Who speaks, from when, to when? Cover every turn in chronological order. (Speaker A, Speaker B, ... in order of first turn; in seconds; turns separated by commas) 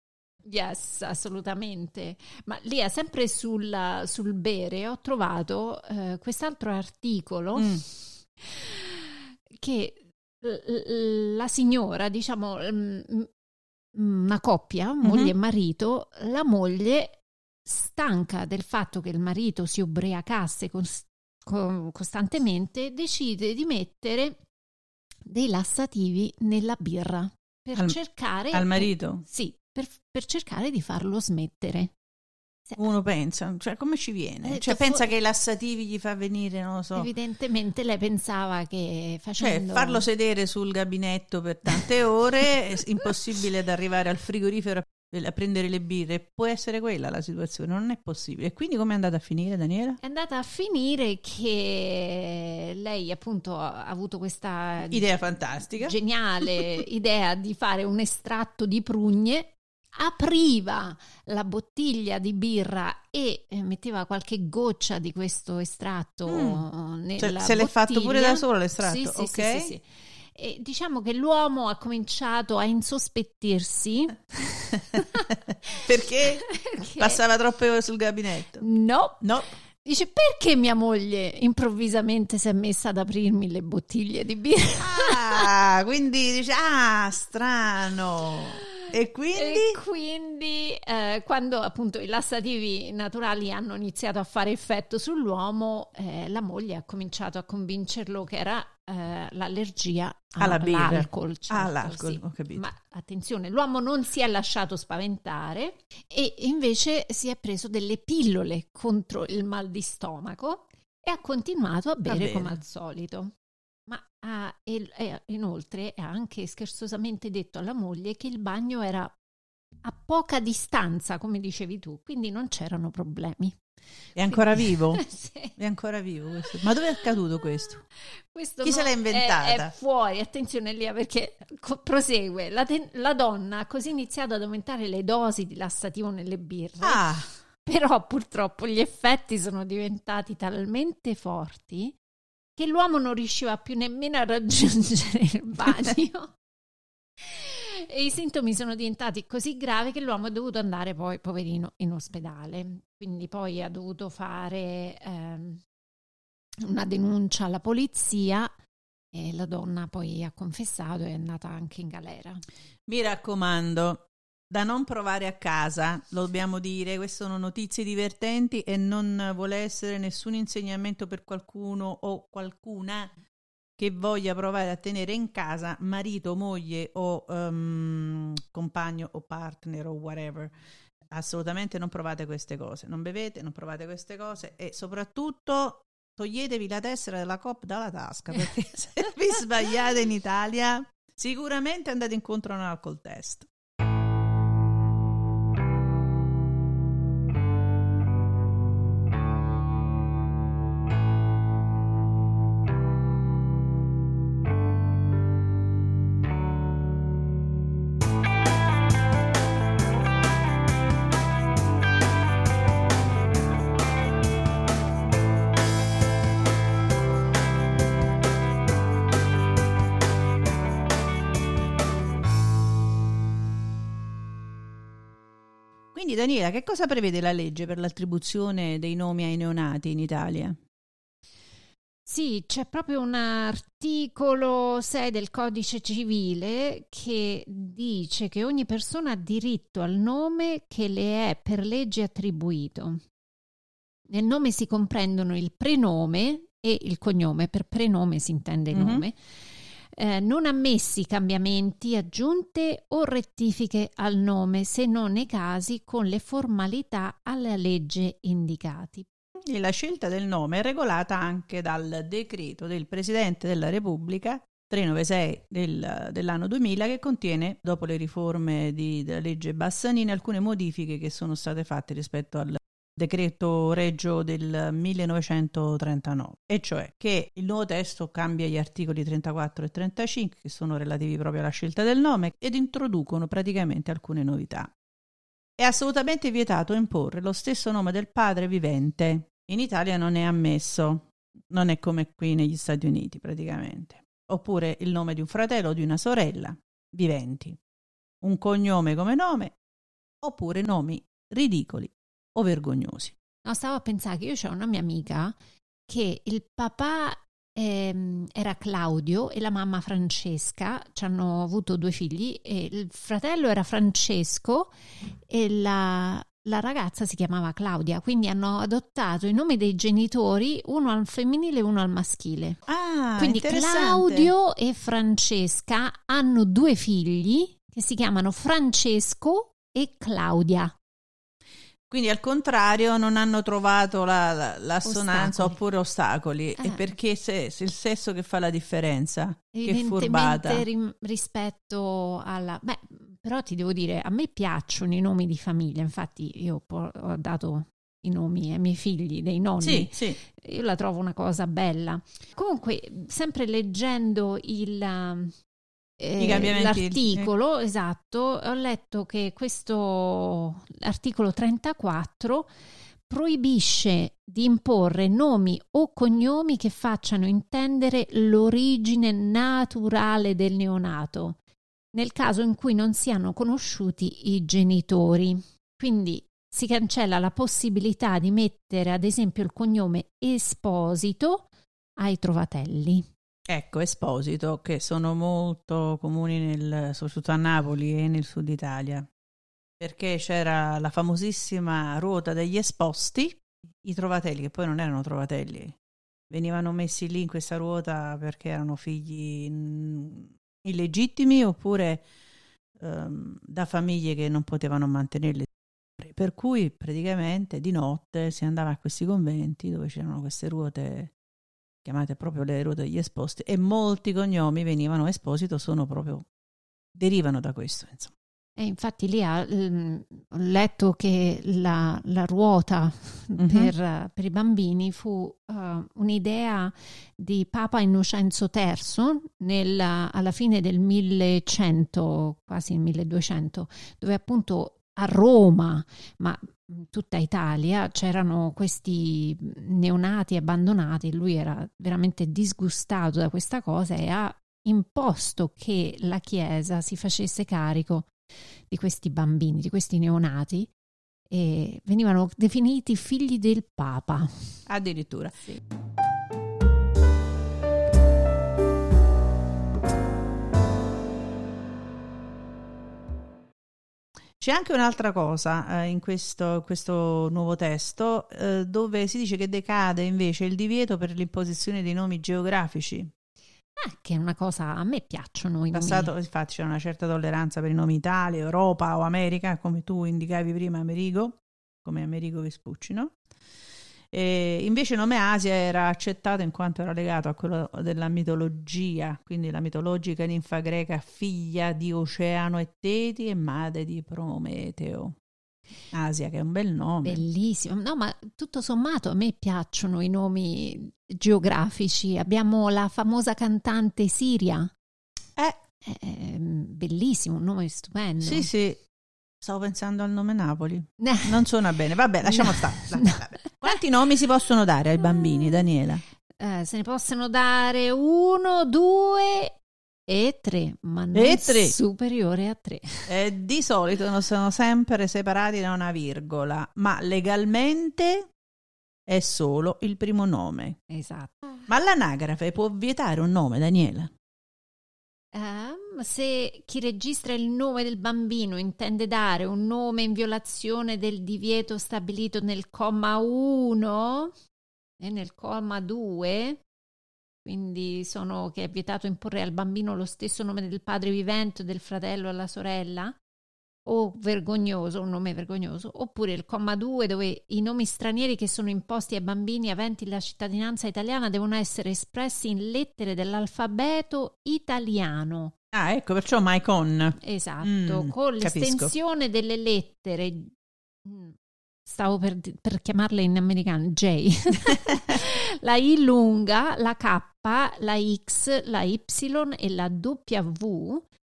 Speaker A: 0.4-7.9, Speaker B: 7.5-7.8, Speaker A: 8.4-13.3, Speaker A: 13.9-24.4, Speaker B: 15.0-15.3, Speaker A: 25.2-31.9, Speaker B: 28.5-29.2, Speaker B: 32.8-37.1, Speaker A: 34.4-35.1, Speaker A: 36.9-40.0, Speaker B: 39.4-50.0, Speaker A: 50.0-55.1, Speaker B: 54.9-55.9, Speaker A: 55.8-75.3, Speaker B: 66.3-66.6, Speaker B: 67.2-69.7, Speaker B: 74.9-78.7, Speaker A: 76.5-77.2, Speaker A: 78.6-79.2, Speaker B: 79.2-79.5, Speaker A: 79.8-85.5, Speaker B: 84.8-89.8, Speaker A: 89.3-113.3, Speaker B: 100.4-102.6, Speaker B: 112.0-112.6, Speaker A: 113.9-119.1, Speaker A: 119.8-123.6, Speaker B: 124.2-125.0, Speaker A: 124.3-125.5, Speaker B: 125.5-127.8, Speaker A: 128.0-137.0, Speaker B: 128.6-129.7, Speaker B: 136.8-137.3, Speaker A: 137.6-141.9, Speaker A: 142.6-146.3, Speaker A: 147.2-155.6, Speaker A: 156.6-158.5, Speaker A: 159.1-162.4, Speaker B: 162.9-173.2, Speaker B: 173.8-180.5, Speaker B: 181.1-193.5, Speaker B: 225.9-230.6, Speaker A: 232.1-243.0, Speaker A: 244.1-259.1, Speaker B: 248.7-249.0, Speaker B: 259.5-284.7, Speaker B: 285.6-297.6, Speaker B: 298.2-299.5, Speaker B: 300.2-303.1, Speaker A: 303.4-305.4, Speaker A: 305.9-314.7, Speaker A: 315.3-322.6, Speaker B: 322.7-324.3, Speaker A: 323.2-330.7, Speaker B: 331.9-340.6, Speaker A: 334.8-335.6, Speaker A: 336.6-336.9, Speaker A: 339.5-355.3, Speaker B: 349.6-350.2, Speaker A: 356.0-362.5, Speaker B: 356.2-357.3, Speaker A: 363.1-371.4, Speaker A: 371.9-381.5, Speaker A: 382.0-383.1, Speaker B: 383.5-389.1, Speaker B: 389.8-395.8, Speaker B: 396.3-402.0, Speaker B: 402.8-411.1, Speaker B: 411.8-416.2, Speaker B: 416.9-418.1, Speaker A: 418.6-448.1, Speaker B: 423.4-423.7, Speaker A: 448.7-450.7, Speaker A: 451.3-454.6, Speaker B: 454.7-455.5, Speaker B: 464.4-473.1, Speaker A: 473.8-476.1, Speaker B: 475.7-483.1, Speaker B: 484.1-495.1, Speaker B: 495.9-497.2, Speaker A: 497.0-504.7, Speaker A: 505.8-508.5, Speaker B: 508.2-508.8, Speaker B: 509.4-516.0, Speaker A: 511.0-511.4, Speaker A: 512.2-513.2, Speaker A: 516.4-519.5, Speaker A: 520.1-523.1, Speaker B: 521.1-521.8, Speaker B: 523.1-528.3, Speaker B: 529.1-530.8, Speaker A: 530.9-531.5, Speaker B: 531.7-534.1, Speaker A: 535.3-544.3, Speaker A: 545.0-546.6, Speaker A: 547.4-553.2, Speaker A: 553.9-565.5, Speaker B: 565.7-568.9, Speaker A: 567.2-570.5, Speaker A: 571.0-581.0